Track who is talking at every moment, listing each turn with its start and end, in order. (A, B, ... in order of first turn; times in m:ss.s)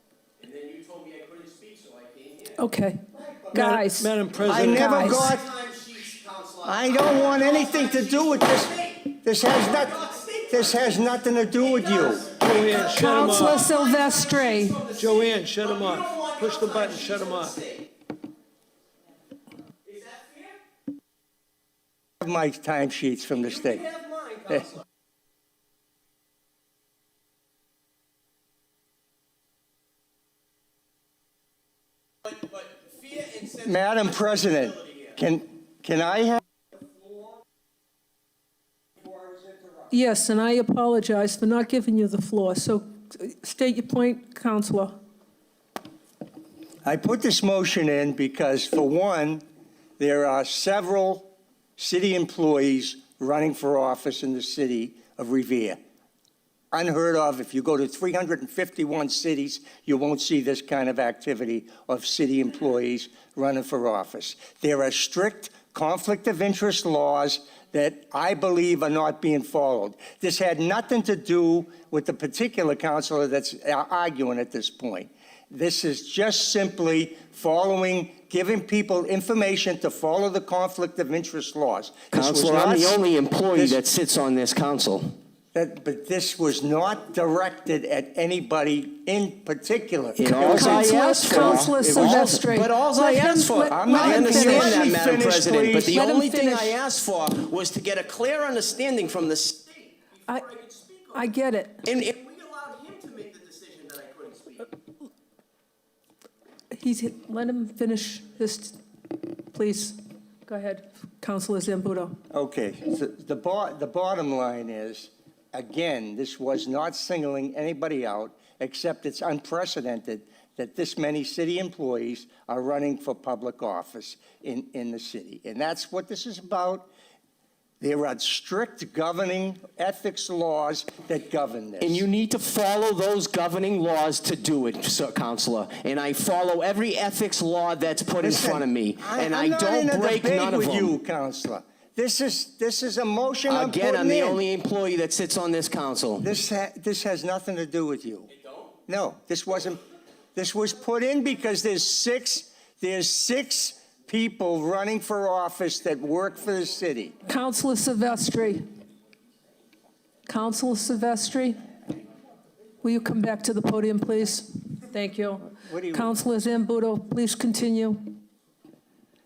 0:00.4-0:02.5 A
0:02.6-0:04.1 B
0:03.5-0:05.2 C
0:04.4-0:05.5 D
0:04.7-0:05.2 B
0:05.3-0:07.9 A
0:06.6-0:12.3 D
0:12.3-0:13.7 C
0:13.0-0:14.9 B
0:13.3-0:13.8 A
0:14.8-0:17.6 C
0:22.2-0:24.7 D
0:33.4-0:36.4 D
0:39.9-0:44.9 B
0:46.8-0:49.4 D
0:50.0-0:55.8 D
0:56.7-1:23.0 D
1:22.1-1:25.2 A
1:23.5-1:23.8 D
1:25.5-1:32.3 D
1:30.2-1:39.9 A
1:30.2-1:34.9 B
1:33.7-1:35.9 D
1:35.8-1:36.8 B
1:40.3-1:41.9 B
1:41.8-1:44.6 A
1:46.7-1:48.8 B
1:49.4-1:52.2 B
1:52.3-2:06.9 D
2:07.8-2:12.0 D
2:11.8-2:20.9 A
2:18.2-2:24.4 D
2:23.5-2:26.3 A
2:26.2-2:28.3 D
2:28.9-2:29.8 D
2:30.3-2:37.1 D
2:37.2-2:38.6 B
2:40.3-2:41.6 B
2:42.8-2:48.2 B
2:45.6-2:46.1 D